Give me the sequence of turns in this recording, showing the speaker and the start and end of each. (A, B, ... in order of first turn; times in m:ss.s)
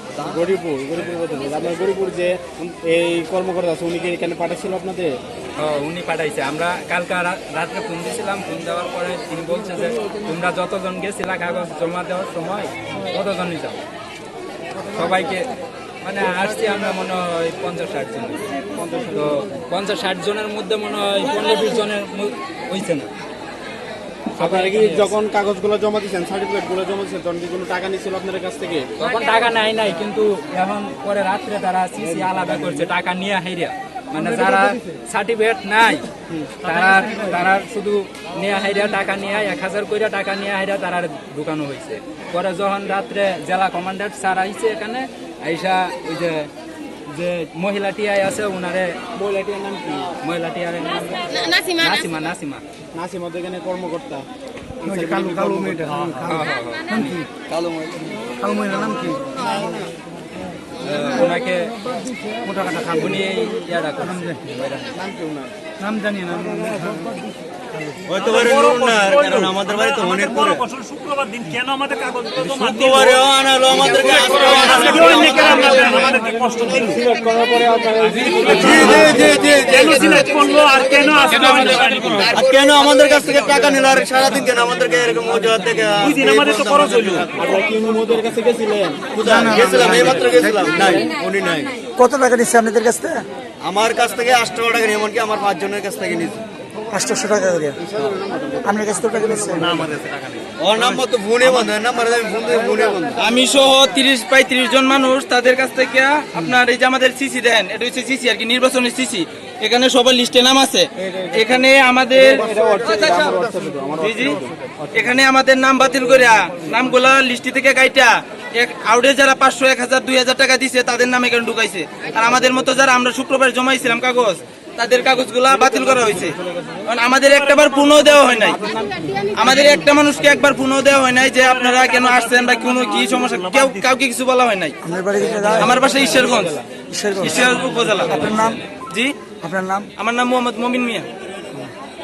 0:00.2-0:05.2 A
0:05.6-0:13.8 B
0:14.9-0:15.5 B
0:16.0-0:18.4 B
0:18.8-0:19.4 A
0:19.2-0:23.1 B
0:24.4-0:25.1 B
0:24.4-0:28.9 A
0:29.0-0:36.1 B
0:32.0-0:32.9 A
0:36.6-0:46.5 B
0:36.7-0:37.1 C
0:47.1-0:49.0 B
0:49.2-0:50.2 A
0:50.2-0:52.6 B
0:53.0-0:54.2 A
0:54.8-0:56.2 A
0:54.9-0:57.2 D
0:56.2-0:57.2 B
0:57.5-0:58.0 E
0:58.4-0:59.2 D
0:59.4-0:59.8 A
1:00.8-1:01.7 B
1:02.5-1:03.2 D
1:02.9-1:04.9 B
1:05.0-1:05.5 A
1:05.8-1:07.0 D
1:08.1-1:10.6 E
1:08.2-1:13.2 C
1:12.4-1:16.0 E
1:14.5-1:17.0 C
1:16.7-1:19.5 A
1:18.4-1:22.4 C
1:18.5-1:20.2 E
1:21.3-1:22.0 F
1:21.8-1:22.2 B
1:22.3-1:27.5 E
1:26.0-1:27.3 C
1:27.3-1:29.1 A
1:29.1-1:31.7 E
1:29.2-1:31.0 D
1:29.7-1:30.1 A
1:32.0-1:33.2 D
1:33.6-1:36.4 E
1:36.9-1:37.8 D
1:37.8-1:40.0 A
1:38.6-1:39.9 D
1:39.8-1:40.4 C
1:40.6-1:43.2 E
1:43.2-1:52.4 F
1:51.0-1:51.6 A
1:52.1-1:54.9 A
1:52.7-1:53.2 E
1:54.0-1:54.4 F
1:54.9-2:06.4 F
2:05.8-2:06.8 A
2:06.9-2:08.6 F
2:07.5-2:08.3 C
2:08.6-2:09.3 A
2:09.3-2:14.8 F
2:11.3-2:14.0 C
2:14.8-2:15.7 D
2:15.2-2:16.6 A
2:15.6-2:16.5 F
2:16.9-2:18.6 D
2:17.2-2:18.2 F
2:18.8-2:19.1 F
2:19.4-2:19.9 D
2:20.0-2:21.1 F